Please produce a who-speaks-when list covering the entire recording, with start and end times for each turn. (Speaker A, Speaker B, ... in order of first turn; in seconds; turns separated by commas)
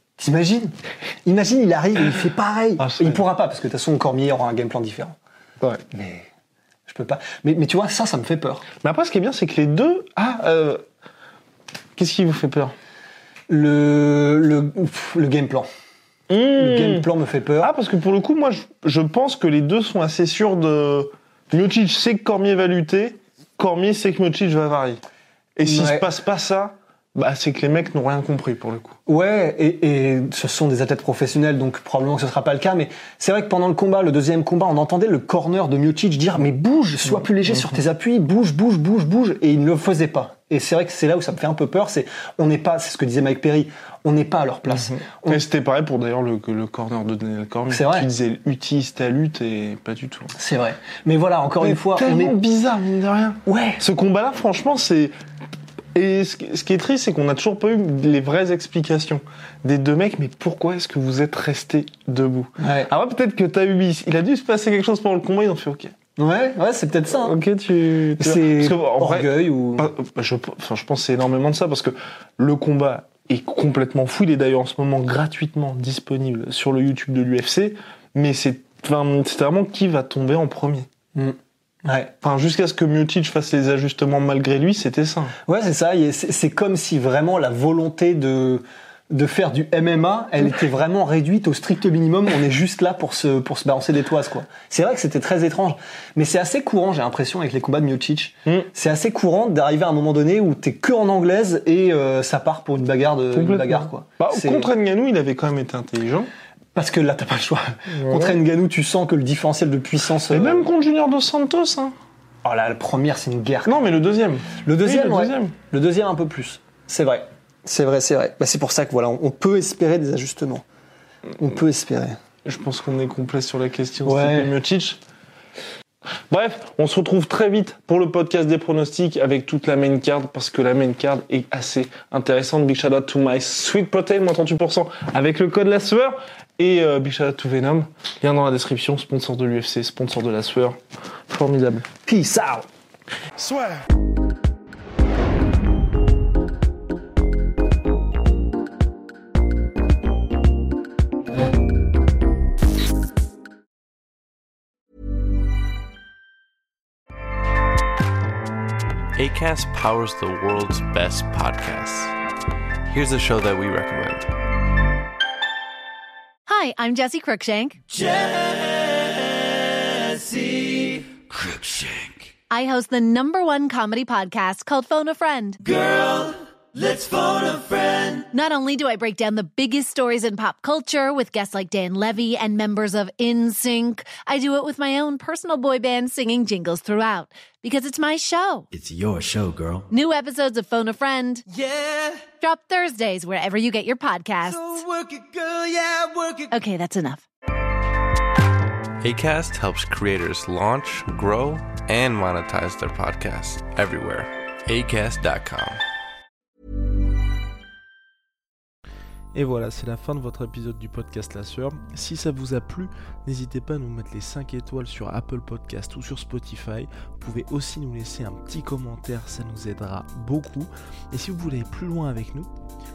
Speaker A: 0.2-0.7, Speaker A: 1.2-5.2, Speaker B: 2.8-3.2, Speaker A: 5.9-6.3, Speaker A: 6.9-8.6, Speaker B: 8.8-10.8, Speaker B: 11.9-12.8, Speaker A: 13.5-15.7, Speaker B: 16.3-17.1, Speaker A: 16.6-17.7, Speaker B: 17.6-25.0, Speaker B: 25.6-29.0, Speaker A: 25.6-26.1, Speaker A: 29.1-45.4, Speaker B: 44.8-50.3, Speaker A: 47.7-48.1, Speaker A: 50.4-52.4, Speaker B: 51.6-55.1, Speaker A: 53.5-53.8, Speaker B: 55.9-65.9, Speaker A: 62.6-62.9, Speaker A: 66.2-67.4, Speaker B: 67.2-80.9, Speaker A: 68.2-69.9, Speaker A: 81.1-82.1, Speaker B: 82.2-85.3, Speaker A: 85.5-104.7, Speaker B: 103.3-106.3, Speaker A: 106.8-110.7, Speaker B: 107.9-108.3, Speaker B: 110.3-111.9, Speaker A: 112.4-113.8, Speaker B: 113.7-115.5, Speaker A: 114.6-120.6, Speaker A: 121.4-122.2, Speaker B: 122.4-125.0, Speaker A: 124.0-124.5, Speaker B: 126.3-141.8, Speaker A: 142.1-142.7, Speaker C: 159.2-162.1, Speaker C: 162.9-164.3, Speaker D: 166.5-167.8, Speaker E: 168.0-168.8, Speaker E: 170.2-170.9, Speaker D: 172.5-175.6, Speaker E: 175.7-178.3, Speaker D: 178.2-188.7, Speaker E: 188.7-189.8, Speaker D: 189.9-191.4, Speaker E: 191.5-192.3, Speaker D: 192.4-194.9, Speaker E: 194.5-196.5, Speaker D: 196.5-197.2, Speaker C: 199.0-205.8, Speaker F: 209.4-222.5